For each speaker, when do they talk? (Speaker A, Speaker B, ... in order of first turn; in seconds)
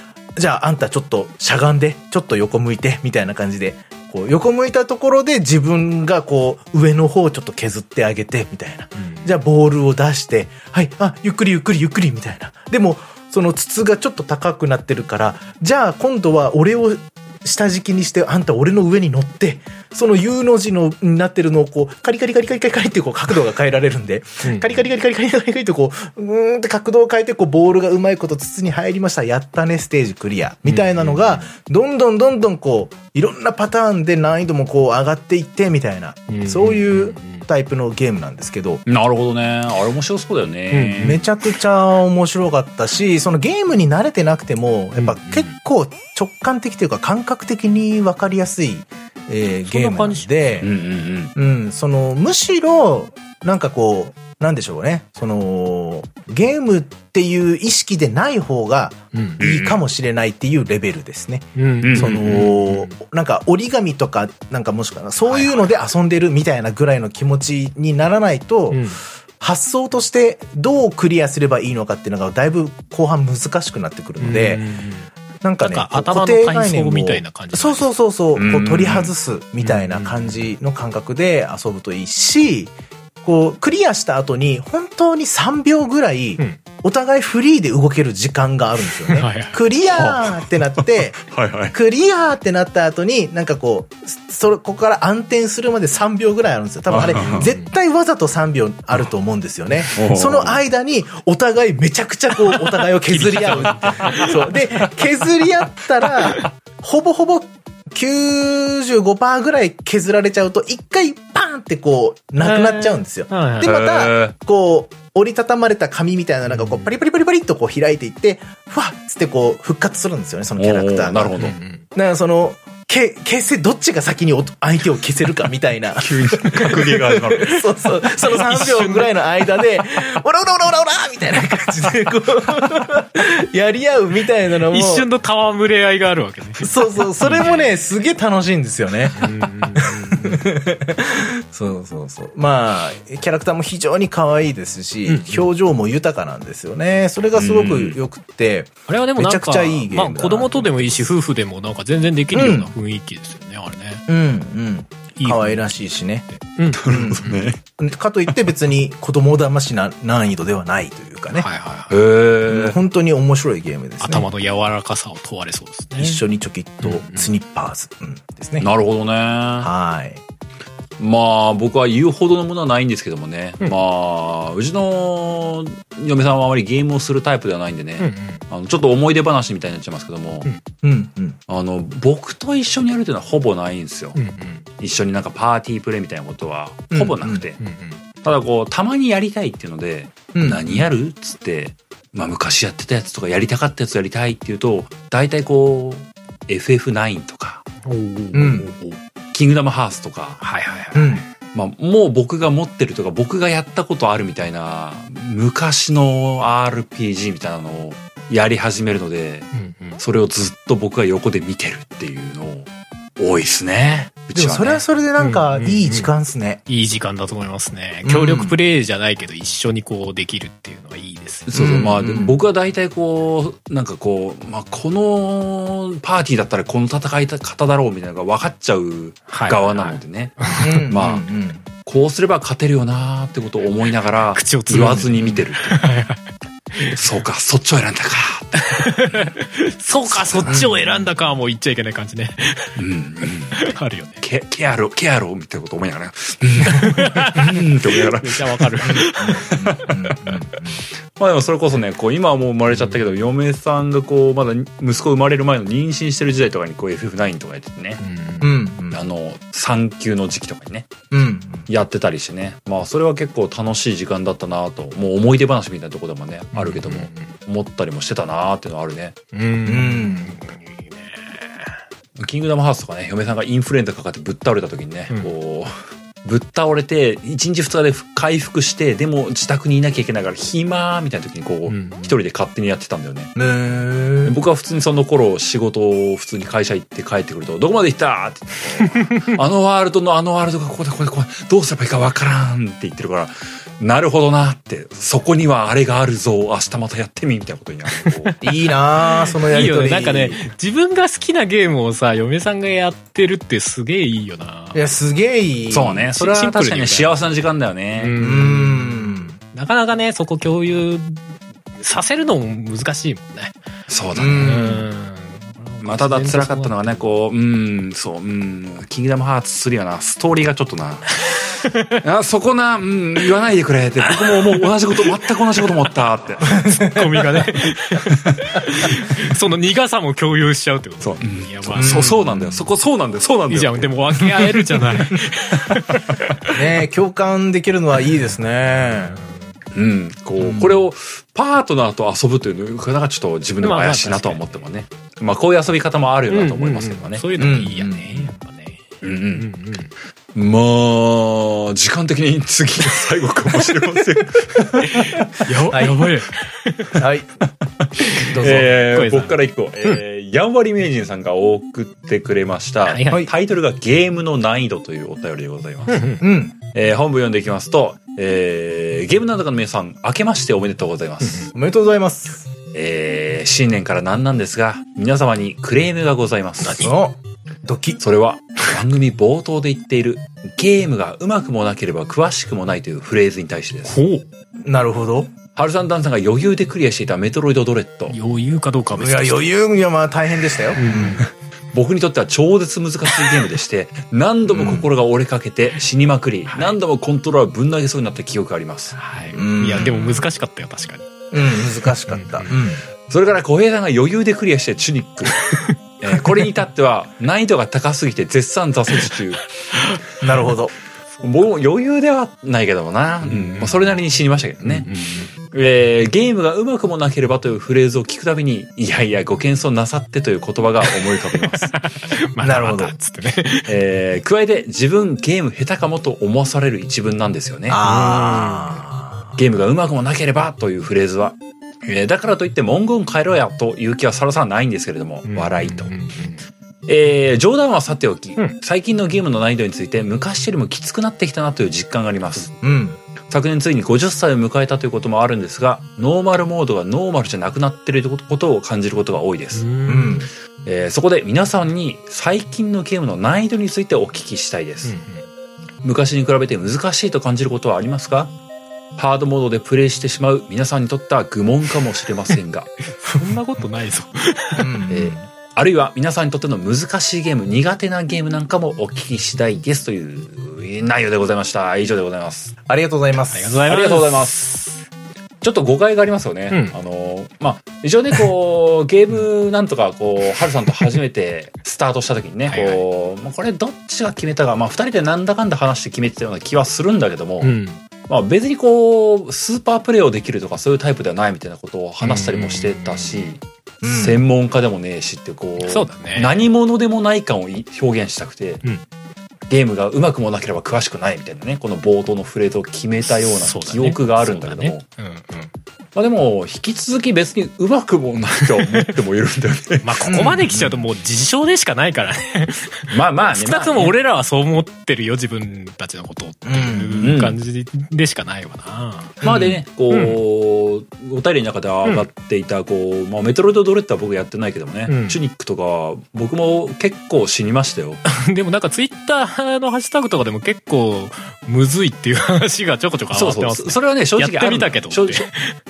Speaker A: 0.4-38.8, 41.0-50.7, 51.4-68.8, 69.4-74.6, 75.4-82.7, 83.2-121.4, 121.9-135.1, 136.6-151.1, 152.3-152.7, 154.1-156.2, 156.9-161.5, 162.5-164.3, 166.0-168.7, 169.6-170.2, 180.8-181.4, 186.9-187.4, 190.3-190.9, 198.3-198.7, 200.9-201.2, 214.3-216.6, 218.1-218.6, 221.5-222.4, 230.6-231.7, 240.5-240.8, 248.9-250.8, 258.4-259.0, 261.1-261.7, 269.7-270.4, 283.4-284.4, 298.4-300.4, 304.7-306.1, 308.2-309.4, 314.1-314.9, 326.5-327.2, 331.8-332.7, 336.5-339.2, 340.4-340.8, 347.4-348.3, 355.7-356.0, 357.0-357.3, 358.2-358.7, 366.2-366.5, 371.5-372.5, 376.8-378.0, 384.6-385.3, 389.0-391.2, 394.5-394.9, 399.3-400.2, 401.3-402.8, 410.2-410.7, 422.4-422.9, 427.7-429.4, 442.6-443.0, 449.9-450.3, 464.6-465.2, 472.7-473.6, 493.8-494.2, 510.1-510.7, 516.4-517.1, 519.2-519.6
Speaker B: 8.9-9.3, 24.4-24.9, 30.7-31.5, 36.3-37.5, 40.7-41.2, 45.0-45.6, 49.7-50.6, 59.1-59.4, 61.6-63.0, 65.3-65.6, 68.7-69.0, 74.2-75.1, 75.6-77.9, 79.6-80.5, 89.1-89.6, 97.1-97.7, 102.5-104.6, 106.2-106.5, 112.4-113.8, 116.5-116.9, 121.4-121.8, 128.2-129.1, 134.7-138.0, 139.2-140.5, 145.1-145.5, 148.9-154.1, 155.2-157.4, 161.3-162.0, 164.0-166.2, 166.8-167.3, 178.0-178.4, 184.2-184.7, 187.6-188.0, 197.8-199.0, 200.4-201.3, 209.5-210.0, 215.2-216.1, 216.7-221.5, 229.3-230.9, 234.3-237.0, 238.5-242.8, 243.5-244.2, 246.7-249.5, 252.7-253.0, 258.0-258.6, 266.5-267.4, 269.3-271.8, 281.7-282.2, 288.9-289.3, 298.0-298.5, 299.0-304.8, 306.2-307.3, 307.9-313.6, 314.4-317.1, 321.3-322.0, 324.1-325.1, 326.4-332.2, 333.3-336.6, 338.8-339.5, 343.6-344.7, 346.3-348.8, 349.4-349.9, 354.8-357.0, 358.0-360.0, 362.8-363.2, 365.9-366.2, 371.2-371.5, 376.6-376.9, 383.9-384.2, 388.1-389.5, 390.8-391.2, 396.5-396.8, 398.9-401.1, 402.1-402.6, 405.3-405.7, 409.7-410.0, 413.2-414.0, 414.6-415.3, 420.9-423.7, 427.8-428.8, 435.2-436.4, 449.5-450.3, 454.8-455.2, 463.0-464.7, 473.3-474.8, 476.5-476.8, 482.5-482.8, 487.4-487.8, 492.0-493.3, 495.6-496.5, 503.1-505.5, 508.4-508.9, 509.8-519.2, 519.9-520.2, 524.9-525.2, 528.1-535.6
Speaker C: 38.9-41.2, 50.6-51.3, 59.4-59.8, 61.8-62.5, 78.3-79.1, 89.9-91.7, 96.9-97.5, 99.9-100.6, 113.6-114.3, 120.6-121.6, 126.0-127.7, 147.3-148.0, 156.7-157.6, 161.9-162.8, 168.6-169.7, 171.0-180.5, 181.5-184.2, 184.8-187.6, 188.2-197.7, 199.3-200.4, 201.5-214.8, 221.5-231.3, 231.8-235.8, 236.9-239.3, 240.1-240.7, 242.8-243.6, 244.2-250.0, 251.2-258.0, 258.9-260.9, 261.7-269.2, 272.2-283.3, 284.2-298.3, 305.7-308.1, 313.9-314.5, 315.8-321.4, 322.0-326.6, 331.0-334.6, 339.7-347.3, 349.0-349.5, 350.4-355.2, 358.2-366.2, 366.7-371.5, 372.7-376.9, 378.0-384.0, 385.6-388.1, 391.7-399.0, 403.1-405.4, 406.0-409.5, 411.2-414.9, 415.5-421.7, 423.7-427.8, 429.4-435.9, 436.9-442.6, 443.3-449.7, 450.6-454.9, 455.8-458.3, 459.0-462.7, 464.9-472.5, 473.7-474.5, 475.4-487.6, 488.1-498.6, 499.5-504.8, 505.9-510.1, 512.9-514.0, 517.0-517.4, 519.2-528.0, 533.1-535.3